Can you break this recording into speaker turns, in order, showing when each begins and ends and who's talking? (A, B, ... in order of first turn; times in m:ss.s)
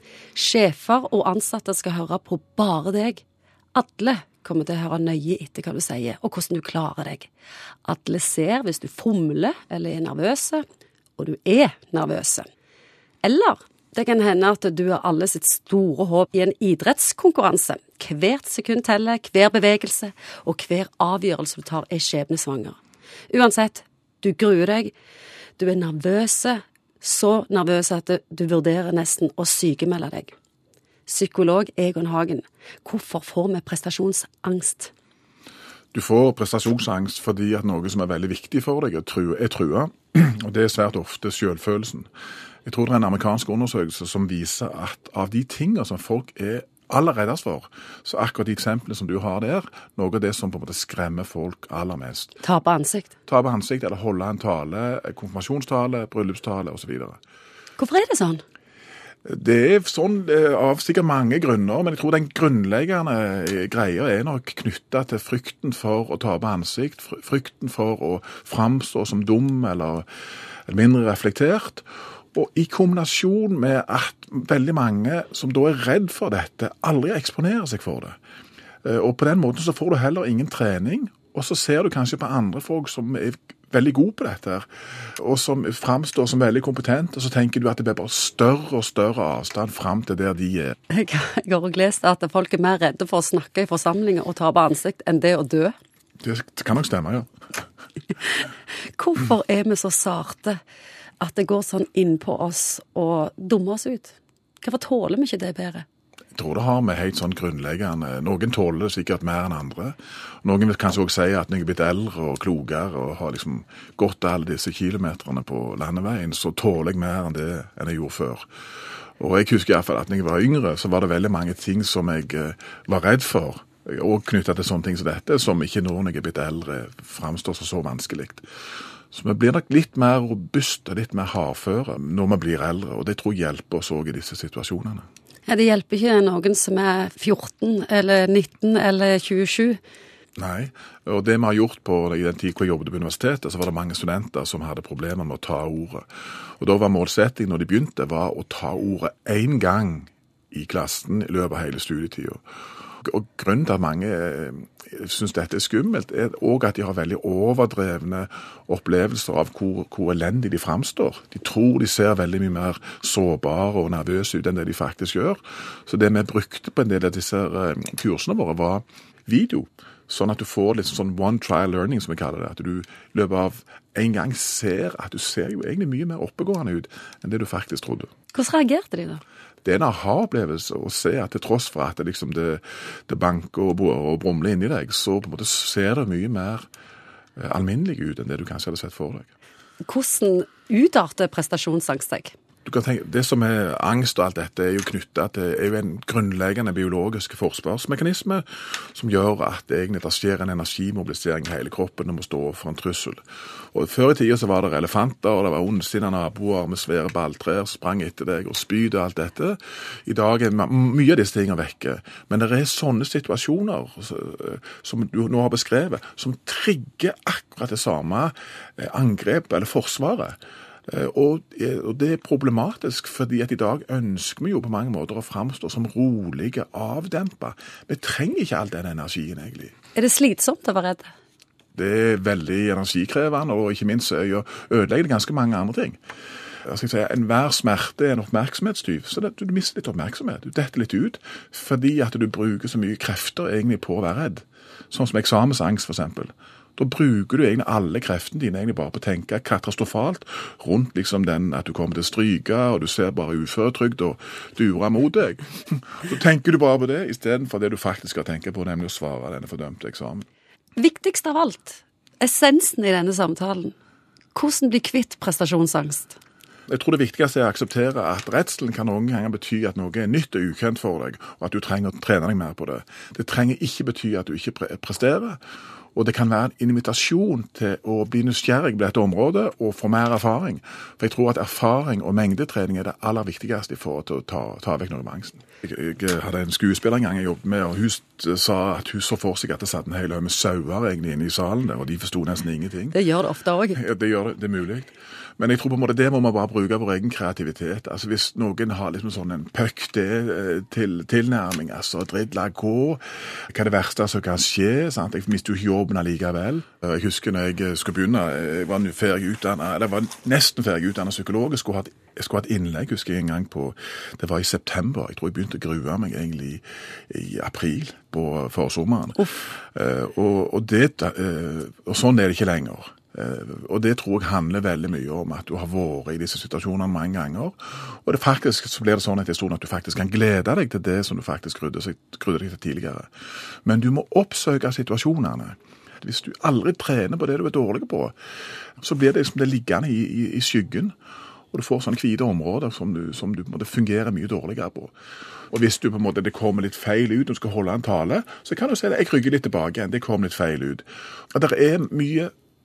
0:00.3-0:03.2 A
0:03.7-0:07.3 A
0:07.8-0:10.6 A
0:11.2-0:12.5 A
0:13.2-0:22.8 A
0:23.3-0:24.9 A
0:25.6-0:30.3 A
0:31.0-0:34.9 A
0:35.9-0:42.1 B
0:42.6-0:52.4 B
0:52.4-0:53.1 A
0:53.3-0:57.2 B
0:57.8-0:58.4 A
0:59.2-1:10.0 B
1:10.6-1:18.2 B
1:18.8-1:24.6 B
1:25.2-1:30.8 B
1:30.9-1:35.7 A
1:36.2-1:37.3 B
1:38.2-1:40.6 A
1:41.2-1:45.8 A
1:46.3-1:58.4 B
1:59.2-2:08.4 B
2:09.1-2:15.0 B
2:15.5-2:19.8 A
2:20.4-2:26.1 B
2:26.6-2:32.4 B
2:33.0-2:58.1 B
2:58.3-2:59.2 A
2:59.6-3:06.6 B
3:07.4-3:09.3 B
3:09.8-3:12.3 A
3:12.6-3:23.2 B
3:23.7-3:40.4 B
3:40.9-3:49.7 B
3:49.9-3:51.1 A
3:51.7-3:56.0 B
3:56.6-4:20.2 B
4:20.8-4:23.7 A
4:24.3-4:26.2 A
4:26.7-4:35.4 B
4:35.9-4:53.0 B
4:52.9-4:53.8 A
4:53.7-5:33.1 B
5:33.6-5:38.1 B
5:38.8-5:40.9 B
5:41.5-5:44.9 B
5:45.5-5:52.3 B